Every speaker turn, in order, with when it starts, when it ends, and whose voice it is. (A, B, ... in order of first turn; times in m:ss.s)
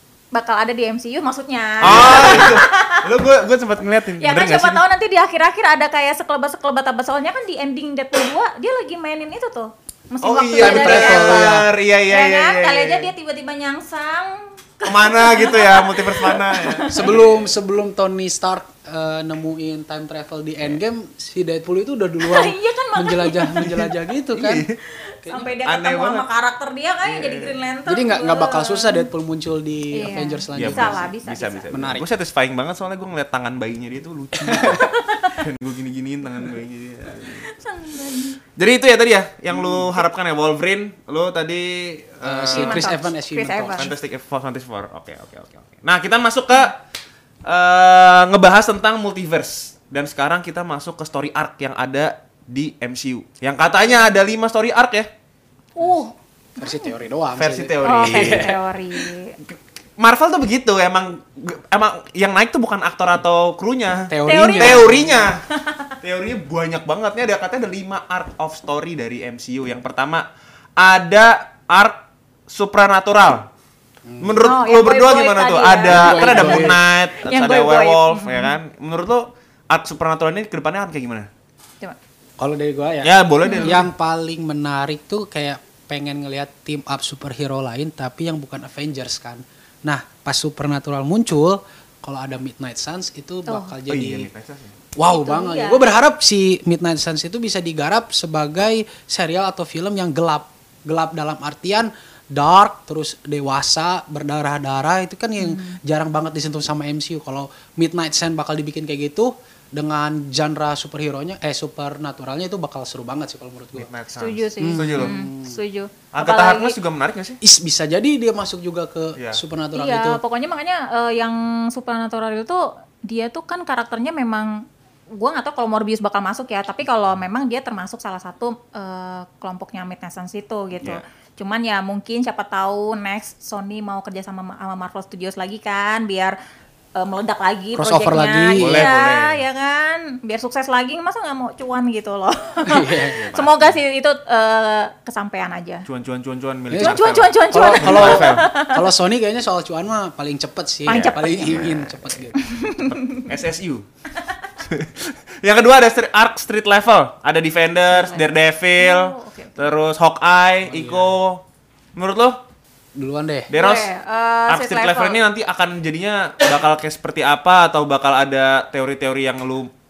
0:00.3-0:03.1 A
0:01.8-0:04.8 B
0:01.9-0:02.2 C
0:04.2-0:17.1 A
0:10.2-0:13.1 B
0:10.6-0:11.7 C
0:14.8-0:17.5 B
0:16.9-0:24.7 C
0:22.2-0:23.9 A
0:24.3-0:24.8 B
0:25.0-0:29.1 A
0:25.2-0:25.5 C
0:25.6-0:26.3 B
0:27.1-0:27.6 B
0:27.9-0:31.1 C
0:29.9-0:31.7 A
0:30.6-0:37.5 B
0:31.7-0:32.1 C
0:34.4-0:34.9 C
0:34.5-0:35.4 A
0:37.3-0:38.4 A
0:38.6-0:42.9 B
0:42.2-0:43.9 C
0:42.5-0:43.9 A
0:43.7-0:46.8 B
0:47.4-0:55.1 B
0:55.8-0:56.9 A
0:56.6-0:58.6 C
0:57.4-0:58.6 B
0:57.8-0:59.4 A
0:59.4-1:05.4 B
1:04.1-1:05.3 C
1:04.3-1:05.9 A
1:06.0-1:13.5 B
1:14.1-1:14.4 C
1:14.2-1:21.3 B
1:14.4-1:18.5 A
1:15.8-1:16.8 C
1:22.4-1:34.3 C
1:23.0-1:23.9 B
1:23.4-1:23.8 A
1:33.5-1:33.7 A
1:33.9-1:34.8 B
1:35.0-1:53.9 C
1:35.0-1:35.9 A
1:45.4-1:45.8 A
1:53.8-1:55.2 B
1:54.2-1:56.8 A
1:54.6-1:55.6 C
1:56.1-1:57.4 B
1:57.4-2:00.2 C
1:59.2-1:59.4 B
1:59.7-2:16.4 A
2:17.0-2:25.9 A
2:17.8-2:18.9 C
2:18.6-2:19.4 B
2:22.6-2:23.2 C
2:23.2-2:23.8 B
2:25.9-2:28.5 B
2:26.7-2:32.4 C
2:26.8-2:28.8 A
2:30.9-2:31.7 A
2:30.9-2:32.2 B
2:32.4-2:33.3 A
2:32.7-2:33.9 B
2:34.6-2:41.4 B
2:37.9-2:39.7 A
2:40.6-2:41.2 C
2:42.0-2:42.4 B
2:43.0-2:43.5 C
2:43.5-2:43.9 B
2:43.5-2:45.2 A
2:44.5-2:49.7 B